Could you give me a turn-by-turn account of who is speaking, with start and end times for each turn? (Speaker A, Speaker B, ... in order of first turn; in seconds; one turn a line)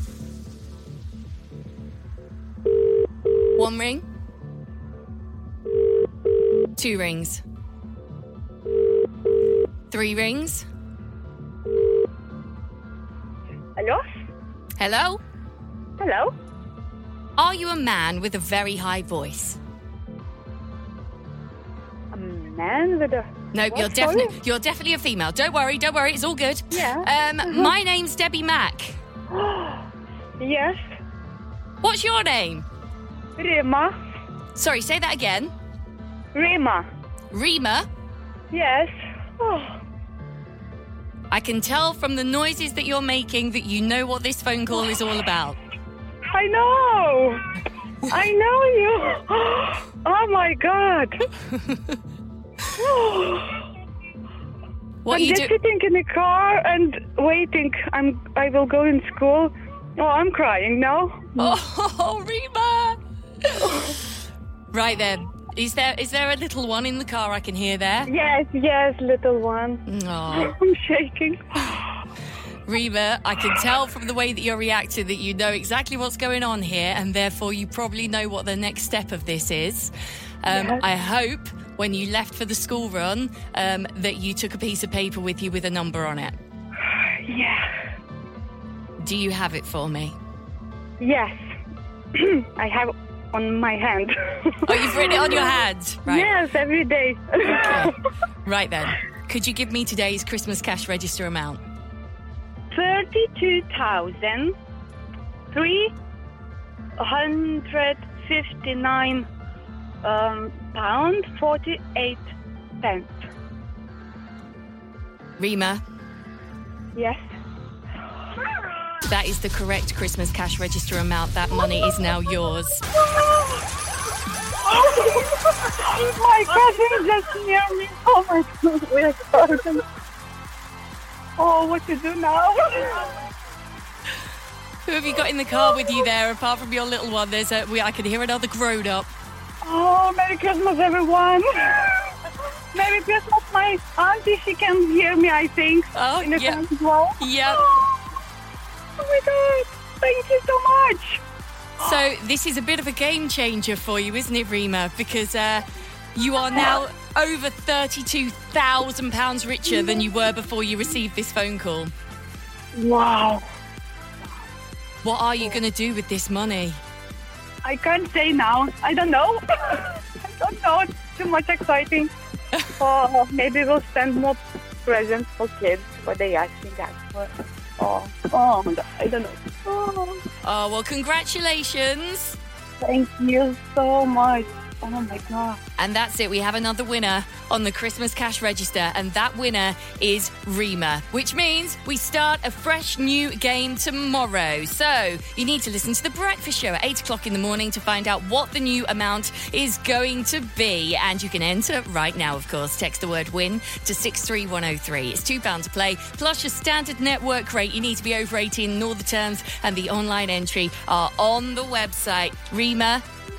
Speaker A: 3.5-4.0
Speaker A: 6.8-7.4
Speaker A: 9.9-10.7
Speaker B: 13.8-14.0
Speaker A: 14.8-15.2
Speaker B: 16.0-16.3
Speaker A: 17.4-19.6
Speaker B: 22.1-24.4
Speaker A: 23.5-29.0
Speaker B: 26.7-27.7
Speaker B: 29.3-29.8
Speaker B: 30.4-30.8
Speaker A: 31.8-32.6
Speaker B: 33.4-33.9
Speaker A: 34.5-35.5
Speaker B: 36.3-36.8
Speaker A: 37.3-37.9
Speaker B: 38.5-39.8
Speaker A: 41.3-45.6
Speaker B: 46.3-47.4
Speaker B: 48.0-51.2
Speaker B: 52.8-53.6
Speaker A: 55.0-55.5
Speaker B: 55.1-61.6
Speaker A: 61.4-63.9
Speaker A: 64.7-68.1
Speaker B: 68.1-71.8
Speaker A: 69.9-70.5
Speaker A: 72.7-86.3
Speaker B: 80.5-80.8
Speaker B: 87.2-87.7
Speaker A: 89.0-90.1
Speaker B: 91.0-91.4
Speaker B: 92.1-97.9
Speaker A: 94.7-96.3
Speaker A: 97.5-101.6
Speaker B: 102.7-104.5
Speaker B: 105.5-105.9
Speaker B: 107.0-109.2
Speaker B: 110.0-112.2
Speaker B: 112.8-113.2
Speaker A: 115.4-115.8
Speaker B: 116.9-117.2
Speaker A: 119.0-122.8
Speaker B: 123.0-123.6
Speaker B: 124.6-129.8
Speaker B: 131.4-133.2
Speaker A: 134.8-139.1
Speaker B: 139.6-142.1
Speaker B: 142.7-148.0
Speaker A: 145.9-146.6
Speaker A: 147.2-147.8
Speaker B: 149.0-151.2
Speaker A: 151.8-161.9
Speaker B: 162.7-163.4
Speaker A: 165.0-166.8
Speaker B: 167.6-172.1
Speaker B: 172.8-180.2
Speaker A: 180.4-182.4
Speaker B: 182.8-185.6
Speaker A: 185.8-213.0